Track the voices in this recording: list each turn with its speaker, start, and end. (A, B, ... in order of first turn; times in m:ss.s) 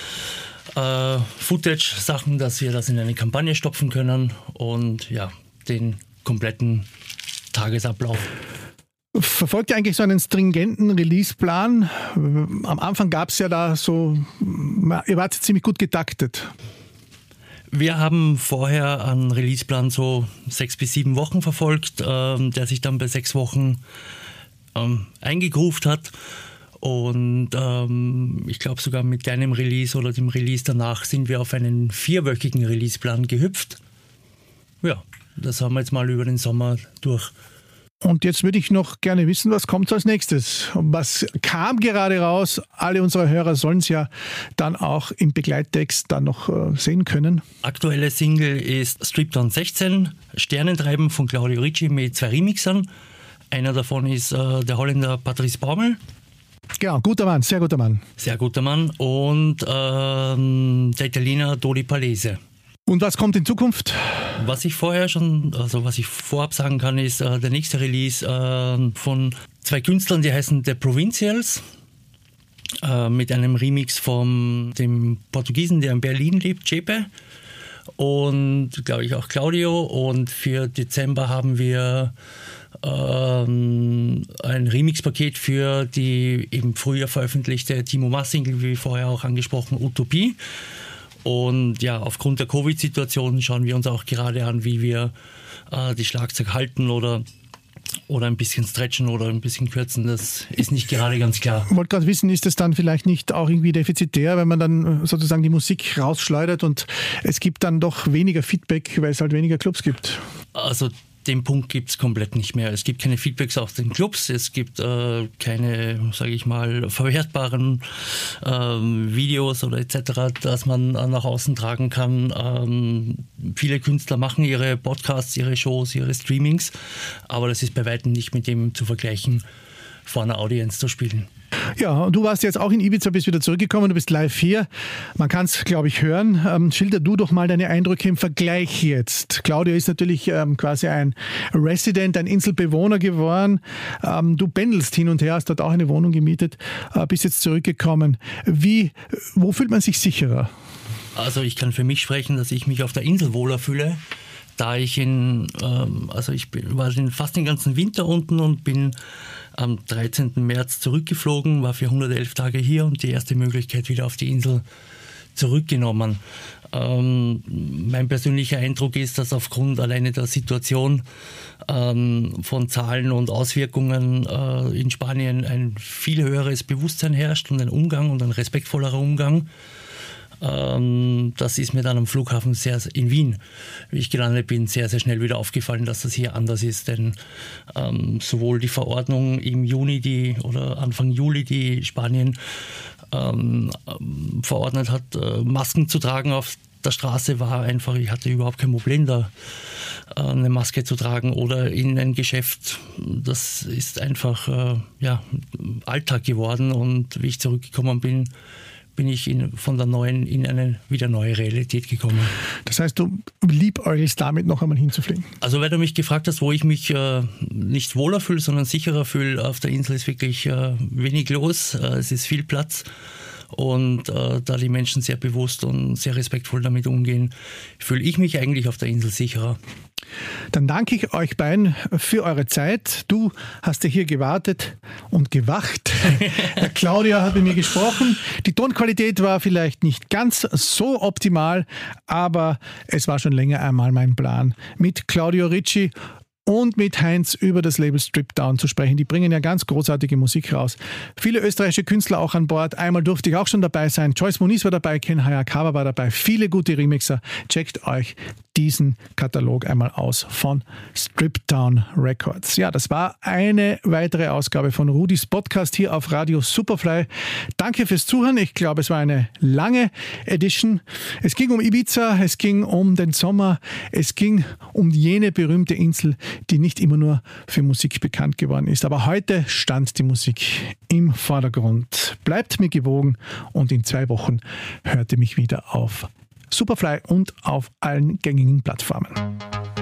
0:00.7-0:06.9 A
0:07.5-0:08.3 A
0:09.1-0:16.5 B
0:17.7-0:23.8 A
0:24.7-0:26.1 A
0:26.8-0:33.8 A
0:34.8-0:37.3 A
0:38.0-0:47.4 B
0:47.6-0:52.9 A
0:53.5-0:56.0 A
0:56.8-0:58.0 B
0:58.2-1:02.4 A
1:02.9-1:04.4 B
1:04.4-1:11.6 A
1:12.8-1:17.1 A
1:18.0-1:22.1 A
1:22.8-1:30.4 A
1:31.2-1:35.1 A
1:35.7-1:37.2 A
1:38.1-1:41.7 A
1:41.7-1:50.2 B
1:50.5-2:06.7 A
2:07.3-2:09.4 A
2:10.0-2:11.3 A
2:11.8-2:30.5 B
2:31.1-2:34.0 A
2:34.6-2:39.0 A
2:39.6-2:44.6 A
2:45.4-2:51.0 A
2:51.6-2:59.5 A
3:00.4-3:03.4 A
3:03.9-3:07.2 A
3:07.7-3:12.4 A
3:13.1-3:19.3 A
3:20.1-3:28.3 A
3:29.0-3:32.3 A
3:32.6-3:35.3 B
3:35.4-3:42.9 A
3:43.5-3:49.6 A
3:50.5-4:05.9 B
4:06.4-4:49.2 B